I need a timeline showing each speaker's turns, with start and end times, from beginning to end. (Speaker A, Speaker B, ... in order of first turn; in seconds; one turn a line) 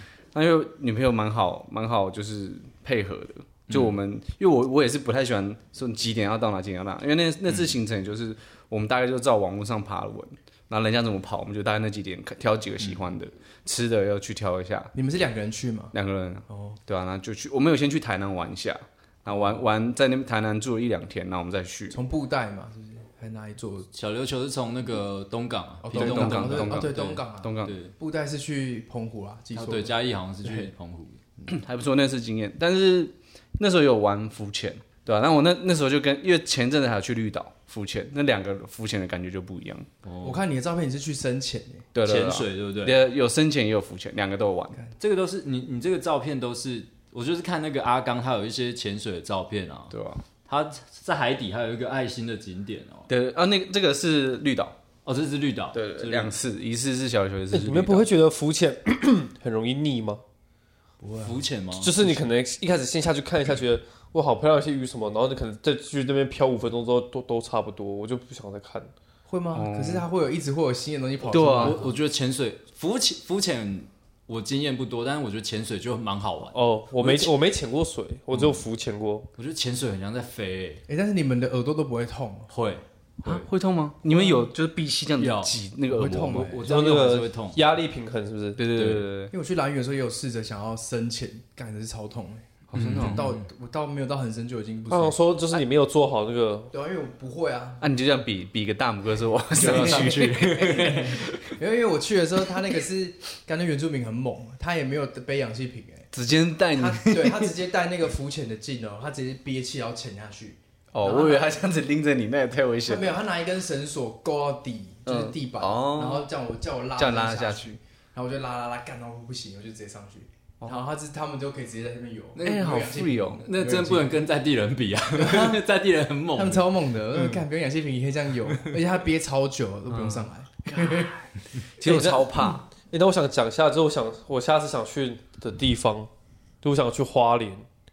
Speaker A: 0.3-14.9
Speaker B: 3.7-4.0
Speaker B: 7.5-7.7
Speaker C: 14.9-15.9
Speaker A: 15.9-22.0
Speaker C: 16.5-16.8
Speaker B: 19.3-19.6
Speaker C: 21.9-23.9
Speaker B: 23.9-27.0
Speaker C: 25.8-29.9
Speaker A: 25.9-27.8
Speaker B: 27.6-27.9
Speaker B: 29.5-31.2
Speaker A: 31.5-39.9
Speaker B: 40.0-40.4
Speaker C: 40.2-41.9
Speaker A: 41.9-44.8
Speaker B: 42.0-43.0
Speaker B: 45.0-49.9
Speaker A: 49.9-50.2
Speaker B: 50.5-53.1
Speaker A: 53.1-54.8
Speaker B: 55.0-56.4
Speaker A: 55.7-58.1
Speaker D: 57.5-60.2
Speaker C: 61.0-61.4
Speaker B: 61.2-62.1
Speaker D: 61.8-68.9
Speaker C: 69.3-71.9
Speaker A: 69.5-70.1
Speaker A: 71.3-71.8
Speaker B: 71.6-77.3
Speaker D: 76.5-79.3
Speaker B: 79.4-80.8
Speaker C: 80.9-82.5
Speaker B: 82.5-83.5
Speaker A: 83.2-86.5
Speaker C: 84.1-84.5
Speaker B: 85.2-87.6
Speaker C: 85.9-86.7
Speaker D: 86.6-88.6
Speaker A: 88.6-89.3
Speaker B: 88.7-89.1
Speaker C: 89.3-95.2
Speaker A: 92.7-93.2
Speaker B: 92.8-93.4
Speaker D: 94.9-96.7
Speaker C: 96.7-97.8
Speaker A: 97.8-101.4
Speaker B: 99.5-101.2
Speaker C: 99.6-106.1
Speaker A: 106.1-107.5
Speaker C: 106.8-111.5
Speaker A: 110.9-113.1
Speaker C: 112.9-124.1
Speaker A: 115.1-116.3
Speaker A: 117.0-117.8
Speaker B: 122.3-122.9
Speaker A: 122.4-123.5
Speaker B: 123.4-127.4
Speaker C: 125.1-125.6
Speaker C: 126.3-131.2
Speaker A: 129.9-132.6
Speaker D: 131.8-136.1
Speaker D: 136.6-137.7